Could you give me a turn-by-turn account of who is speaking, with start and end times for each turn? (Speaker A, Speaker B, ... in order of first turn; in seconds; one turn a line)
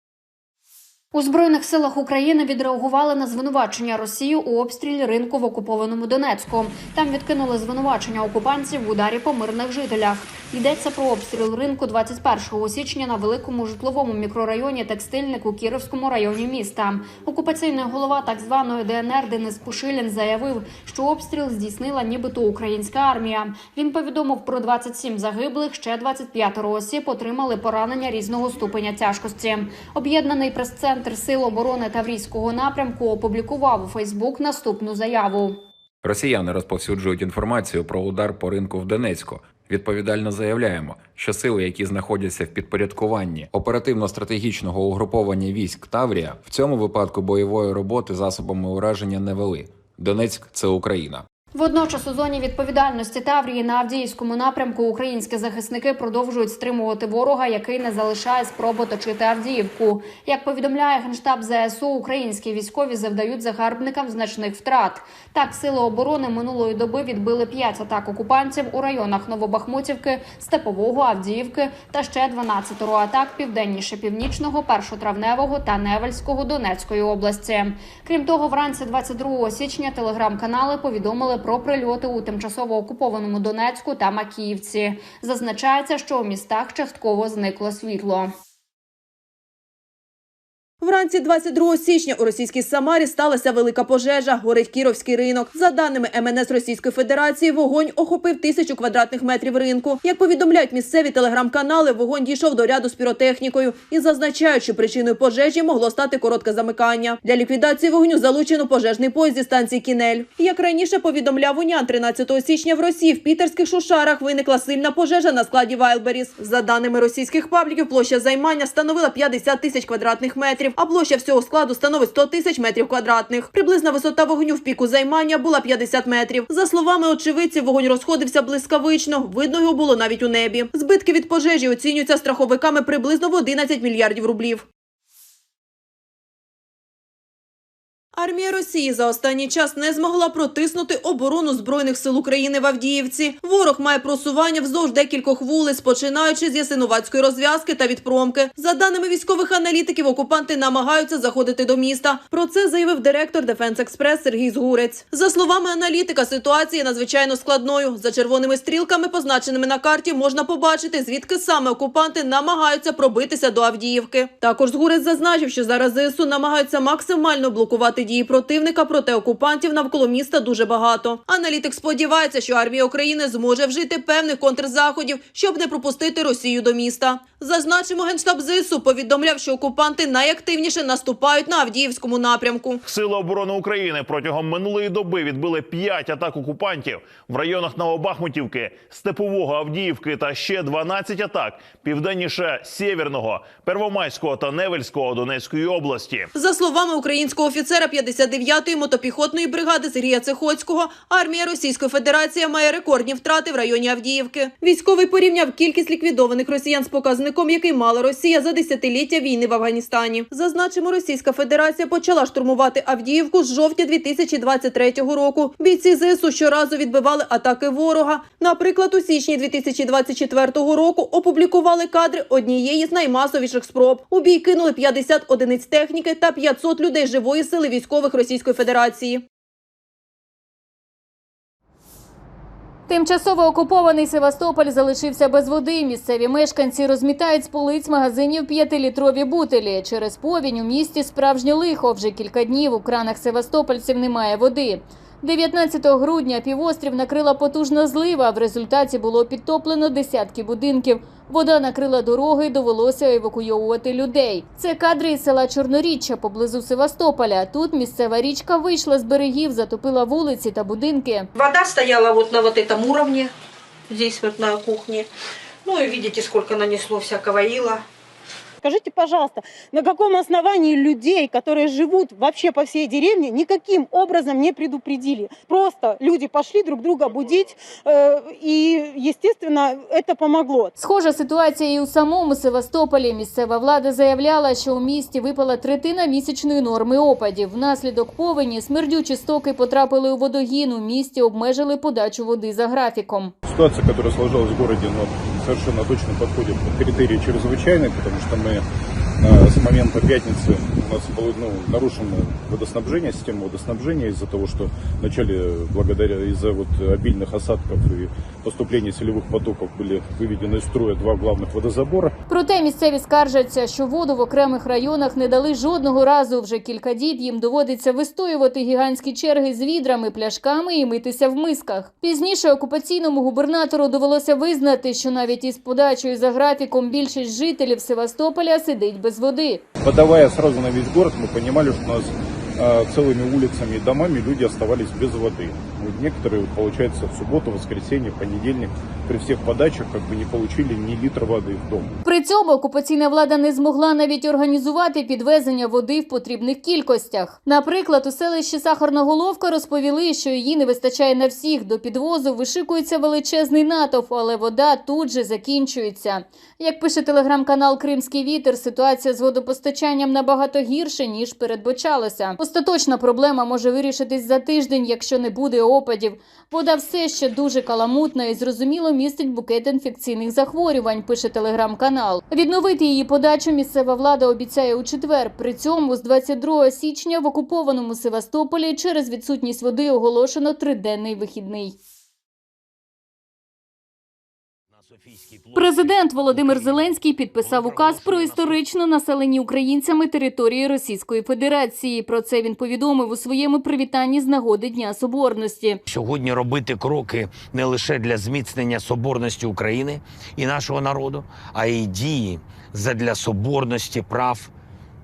Speaker A: 1.1-35.6
Speaker B: 36.0-51.2
Speaker A: 51.5-88.3
Speaker C: 90.8-134.7
Speaker C: 138.1-182.8
Speaker D: 182.8-196.3
Speaker C: 196.3-229.2
Speaker E: 232.9-261.3
Speaker F: 261.4-263.3
Speaker F: 263.9-265.1
Speaker F: 265.6-267.8
Speaker G: 268.6-280.7
Speaker E: 280.8-293.3
Speaker H: 293.4-298.6
Speaker H: 299.2-312.1
Speaker E: 312.3-329.6
Speaker H: 329.8-341.9
Speaker E: 342.0-381.8
Speaker I: 384.7-388.5
Speaker E: 385.5-395.8
Speaker I: 395.9-404.5